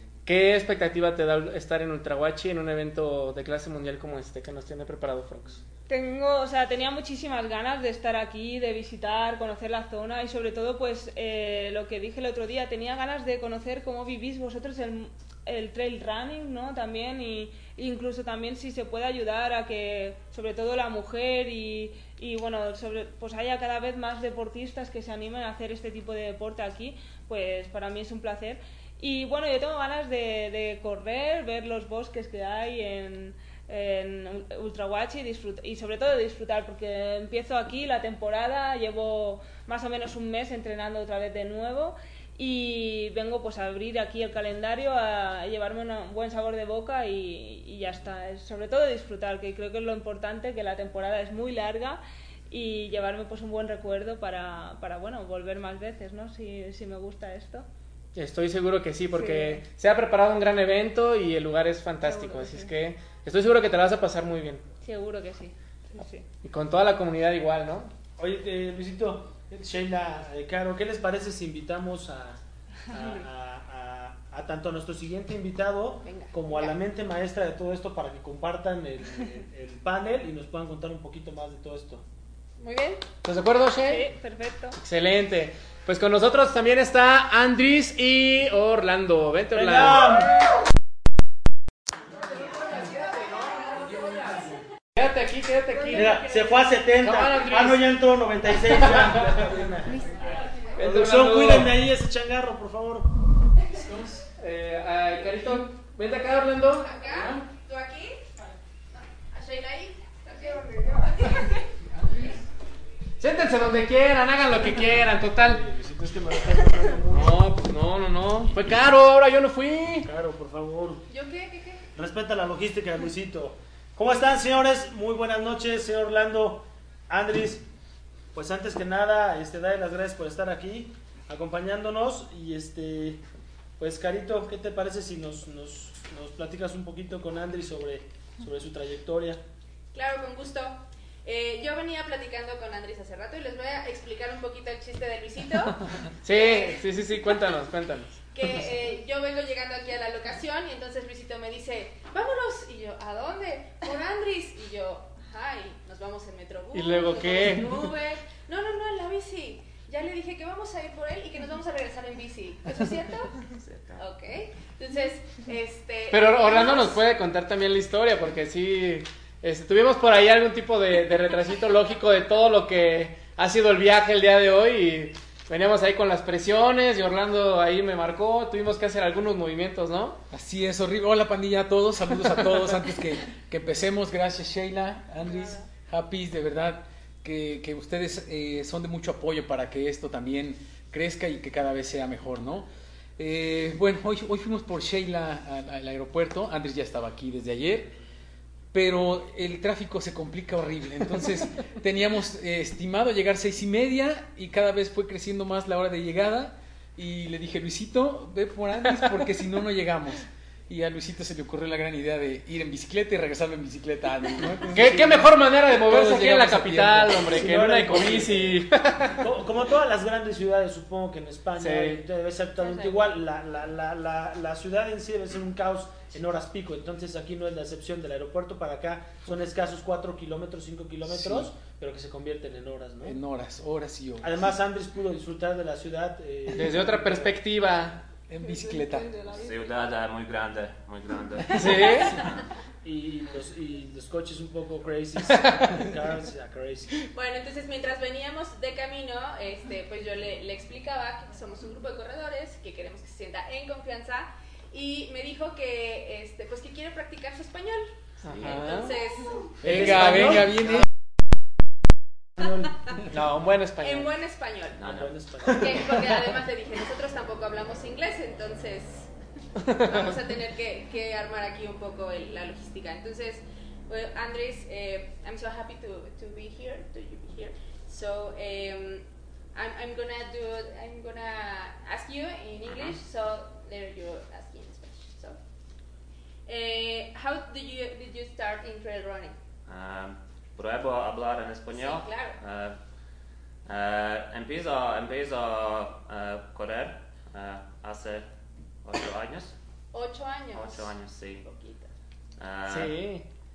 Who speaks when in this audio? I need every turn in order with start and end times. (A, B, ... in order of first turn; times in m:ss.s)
0:00.2-0:05.6 A
0:05.9-0:57.7 B
0:58.2-1:04.6 A
0:59.2-0:59.6 B
1:02.0-1:02.7 B
1:04.8-1:06.2 B
1:06.4-1:07.9 A
1:08.2-1:22.0 C
1:16.0-1:16.7 D
1:22.6-1:23.1 D
1:23.2-1:24.1 A
1:23.9-1:24.8 B
1:24.8-1:30.1 A
1:29.5-1:30.4 C
1:32.5-1:34.5 D
1:35.0-1:36.2 A
1:35.7-1:36.7 B
1:35.9-1:40.2 C
1:37.0-1:37.9 A
1:38.7-1:39.3 A
1:40.8-1:41.8 A
1:40.8-1:43.1 C
1:43.7-1:44.3 E
1:44.4-1:46.9 A
1:46.7-1:48.3 D
1:48.9-1:51.7 D
1:53.2-1:55.6 A
1:55.4-1:57.4 C
1:57.1-2:00.1 A
2:00.0-2:01.1 C
2:01.1-2:01.8 D
2:02.0-2:07.7 C
2:08.3-2:13.2 C
2:13.8-2:19.4 C
2:19.9-2:26.8 D
2:26.2-2:28.2 A
2:28.3-2:47.0 D
2:36.7-2:37.7 A
2:43.5-2:44.0 F
2:46.1-3:00.2 A
3:00.3-3:12.7 E
3:05.2-3:05.7 B
3:13.2-3:18.0 E
3:18.7-3:35.0 E
3:34.7-3:35.3 C
3:34.7-3:39.2 A
3:35.9-3:37.3 E
3:37.1-3:38.6 C
3:39.2-3:53.2 C
3:41.6-3:42.0 A
3:42.6-3:43.1 D
3:51.1-3:51.5 E
3:53.0-3:54.3 E
3:54.2-3:57.4 C
3:56.5-3:58.0 A
3:58.3-3:59.5 E
3:58.4-3:59.6 B
3:59.3-4:02.4 F
4:01.5-4:02.2 A
4:02.8-4:07.0 C
4:07.0-4:19.6 D
4:18.2-4:18.9 A
4:18.3-4:18.8 F
4:19.6-4:20.8 C
4:19.6-4:20.8 E
4:22.4-4:22.8 C
4:23.1-4:24.2 A
4:23.8-4:45.4 D
4:24.8-4:25.8 F
4:24.8-4:25.8 C
4:42.6-4:43.0 F
4:46.5-4:49.4 D
4:49.7-4:52.8 F
4:51.7-4:52.4 D
4:53.7-4:58.3 F
4:58.8-4:59.5 F
4:59.9-5:01.9 D
5:00.5-5:01.4 F
5:02.4-5:03.0 F
5:02.7-5:03.3 A